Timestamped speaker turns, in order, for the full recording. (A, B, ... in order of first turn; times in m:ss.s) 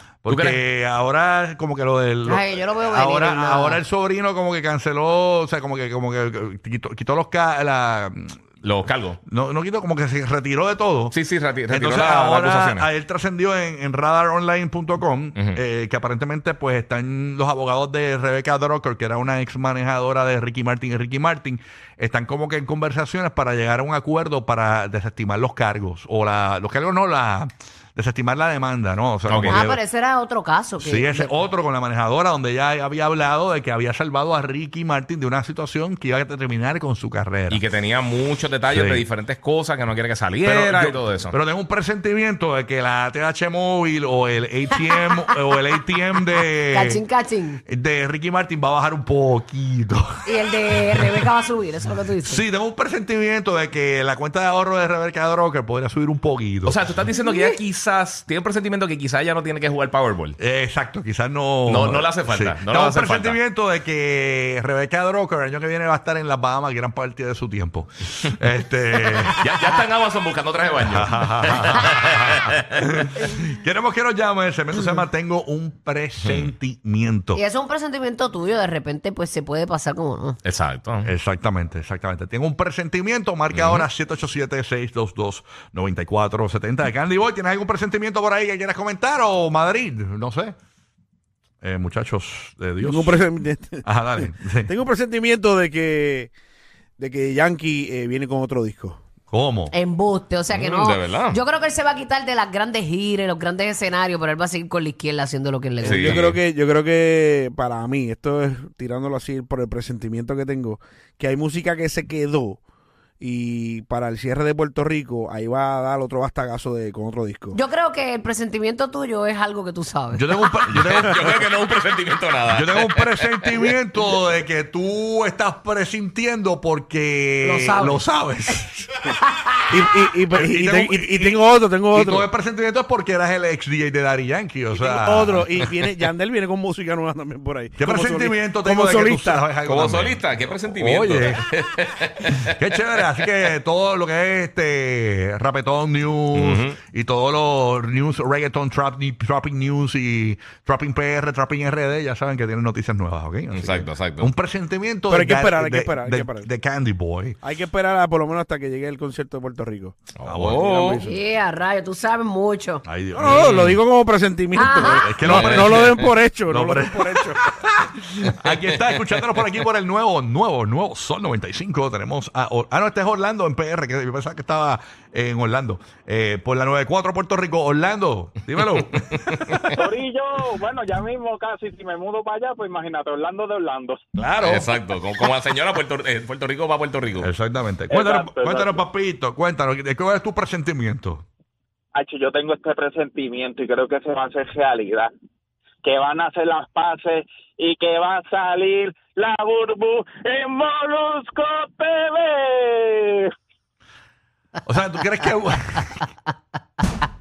0:00.2-0:08.4 A
0:00.3-0:00.6 B
0:02.3-0:03.8 C
0:08.6-0:09.2 B
0:09.2-0:11.1 A
0:11.1-0:12.8 B
0:11.7-0:29.8 A
0:29.3-0:29.6 B
0:29.5-0:31.4 C
0:30.8-0:37.6 A
0:37.5-0:41.3 B
0:38.7-0:39.1 A
0:40.4-0:47.0 A
0:44.9-0:45.2 C
0:46.7-0:47.6 C
0:47.6-0:50.2 A
0:50.2-0:52.4 C
0:52.2-0:56.8 A
0:56.6-1:00.4 B
1:00.4-1:09.4 A
1:01.7-1:03.4 B
1:09.4-1:12.7 B
1:10.8-1:17.4 A
1:16.2-1:16.5 B
1:17.3-1:20.4 C
1:20.4-1:21.1 B
1:21.0-1:30.5 A
1:23.5-1:23.9 B
1:31.6-1:33.2 A
1:32.8-1:36.3 D
1:33.8-1:34.7 A
1:37.0-1:39.0 D
1:39.3-1:39.7 A
1:39.7-1:46.2 C
1:40.5-1:41.4 B
1:45.8-1:52.6 D
1:45.8-1:46.4 B
1:53.2-1:57.6 D
1:57.5-2:00.3 C
2:00.1-2:01.4 A
2:00.7-2:03.3 B
2:02.4-2:08.9 A
2:07.4-2:08.0 C
2:09.3-2:09.7 C
2:09.7-2:12.3 D
2:10.3-2:15.7 A
2:14.7-2:19.4 D
2:17.8-2:20.2 A
2:19.6-2:22.5 B
2:20.7-2:21.4 A
2:22.5-2:37.4 A
2:26.3-2:26.8 B
2:33.5-2:34.3 B
2:35.1-2:36.5 D
2:37.4-2:40.0 D
2:40.2-2:41.0 B
2:40.2-2:40.8 A
2:40.7-2:41.2 D
2:41.0-2:42.8 C
2:42.8-2:43.7 A
2:43.2-2:47.4 D
2:43.3-2:43.6 B
2:44.5-2:45.1 C
2:44.6-2:59.8 A
2:45.2-2:46.1 B
2:59.9-3:04.0 E
3:04.2-3:04.7 A
3:04.4-3:07.3 B
3:07.2-3:11.2 A
3:12.0-3:15.1 E
3:15.8-3:23.0 E
3:24.6-3:26.0 A